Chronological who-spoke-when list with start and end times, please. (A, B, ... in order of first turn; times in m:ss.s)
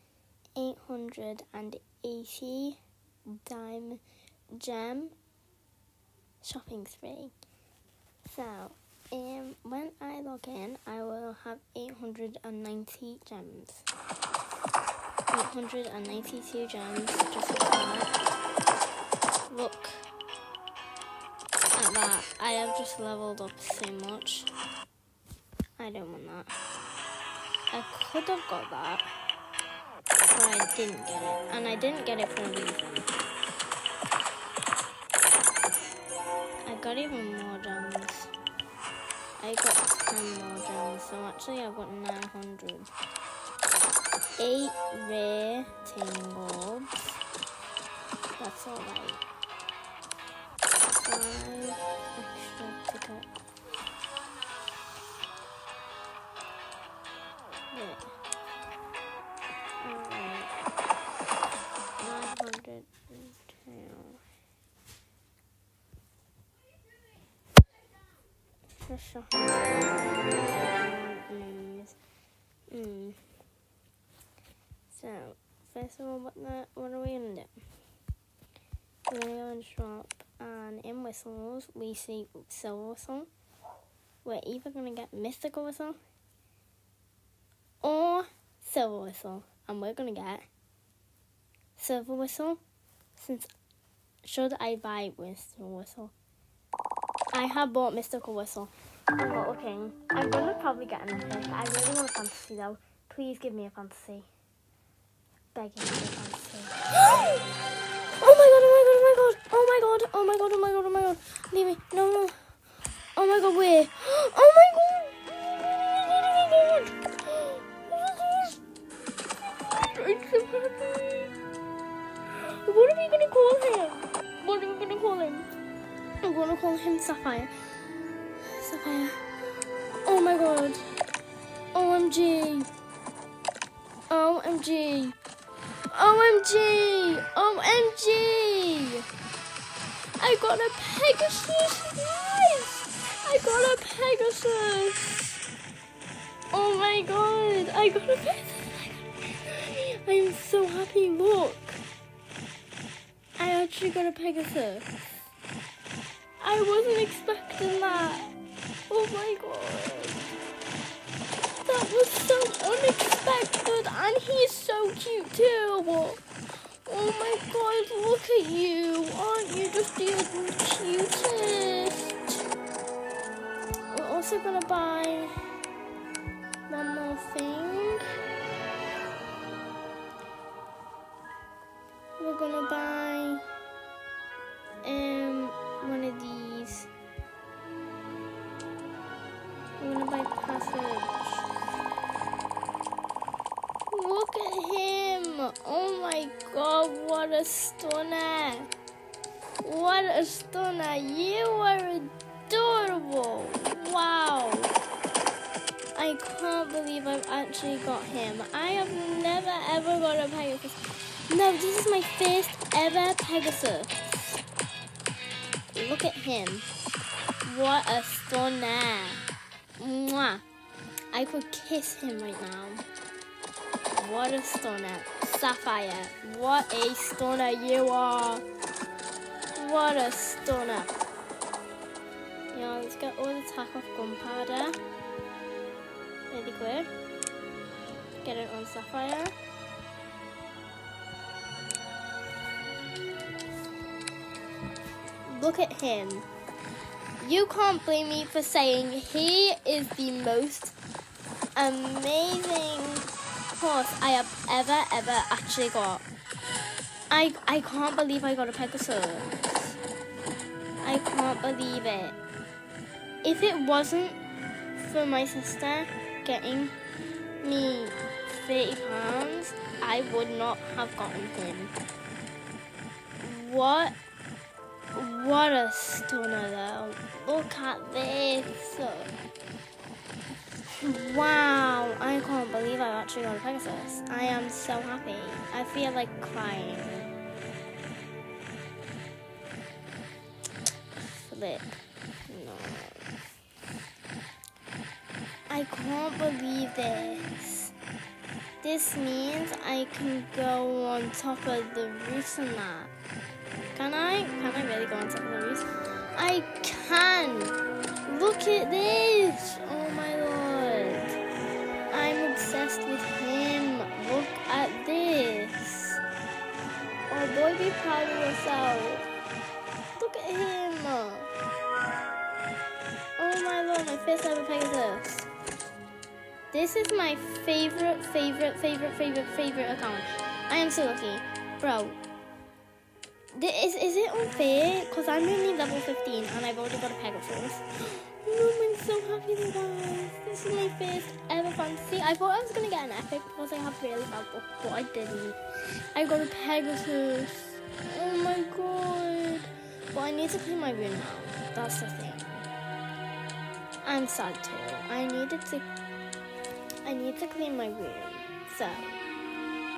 0:00.6-0:02.8 A
0:03.3-0:04.0 A
0:04.6-0:05.1 A
0:06.4-0:07.3 A
0:08.3-0:13.9 A
0:15.3-0:18.2 A
0:19.5-0:20.1 A
0:21.8-0:24.5 A
0:25.8-0:26.5 A
0:27.7-0:29.0 A
0:30.3-0:33.2 A
0:36.7-0:38.3 A
0:39.4-0:42.9 A
0:44.4-0:47.2 A
0:48.4-0:49.2 A
0:51.0-0:53.3 A
0:57.7-0:58.1 A
0:59.8-1:00.5 A
1:02.0-1:04.2 A
1:08.9-1:12.0 A
1:12.7-1:13.2 A
1:14.9-1:17.5 A
1:19.1-1:23.3 A
1:24.2-1:26.0 A
1:27.8-1:30.5 A
1:31.8-1:32.6 A
1:33.2-1:33.5 A
1:34.2-1:36.1 A
1:37.3-1:44.3 A
1:45.6-1:47.3 A
1:48.2-1:52.4 A
1:53.2-1:58.6 A
1:59.6-2:01.3 A
2:02.3-2:05.5 A
2:06.2-2:07.5 A
2:08.4-2:09.2 A
2:10.0-2:10.8 A
2:11.7-2:12.7 A
2:14.1-2:15.2 A
2:15.9-2:19.0 A
2:20.2-2:25.4 A
2:26.5-2:31.8 A
2:33.4-2:34.9 A
2:36.4-2:38.3 A
2:38.9-2:40.3 A
2:41.6-2:46.2 A
2:46.9-2:52.2 A
2:53.9-2:55.3 A
2:56.7-2:58.1 A
3:02.2-3:03.4 A
3:04.8-3:06.9 A
3:09.8-3:11.5 A
3:13.9-3:18.7 A
3:19.6-3:24.7 A
3:26.0-3:34.4 A
3:35.7-3:36.7 A
3:37.4-3:39.2 A
3:39.8-3:40.4 A
3:41.1-3:42.8 A
3:43.9-3:48.4 A
3:49.5-3:51.0 A
3:52.5-3:54.8 A
3:56.3-3:56.9 A
3:58.2-3:59.3 A
4:05.3-4:06.3 A
4:07.2-4:10.8 A
4:11.6-4:16.0 A
4:17.1-4:19.8 A
4:20.8-4:22.2 A
4:23.2-4:24.2 A
4:24.8-4:26.8 A
4:27.4-4:31.7 A
4:33.2-4:34.0 A
4:34.9-4:39.1 A
4:40.8-4:47.1 A
4:50.9-4:53.1 A
4:55.5-4:57.7 A
4:58.6-5:02.9 A
5:03.7-5:11.2 A
5:11.9-5:16.0 A
5:17.1-5:19.1 A
5:20.0-5:21.3 A
5:23.2-5:25.3 A
5:26.5-5:32.0 A
5:33.3-5:45.4 A
5:45.9-5:52.5 A
5:53.8-5:55.7 A
5:56.8-5:59.0 A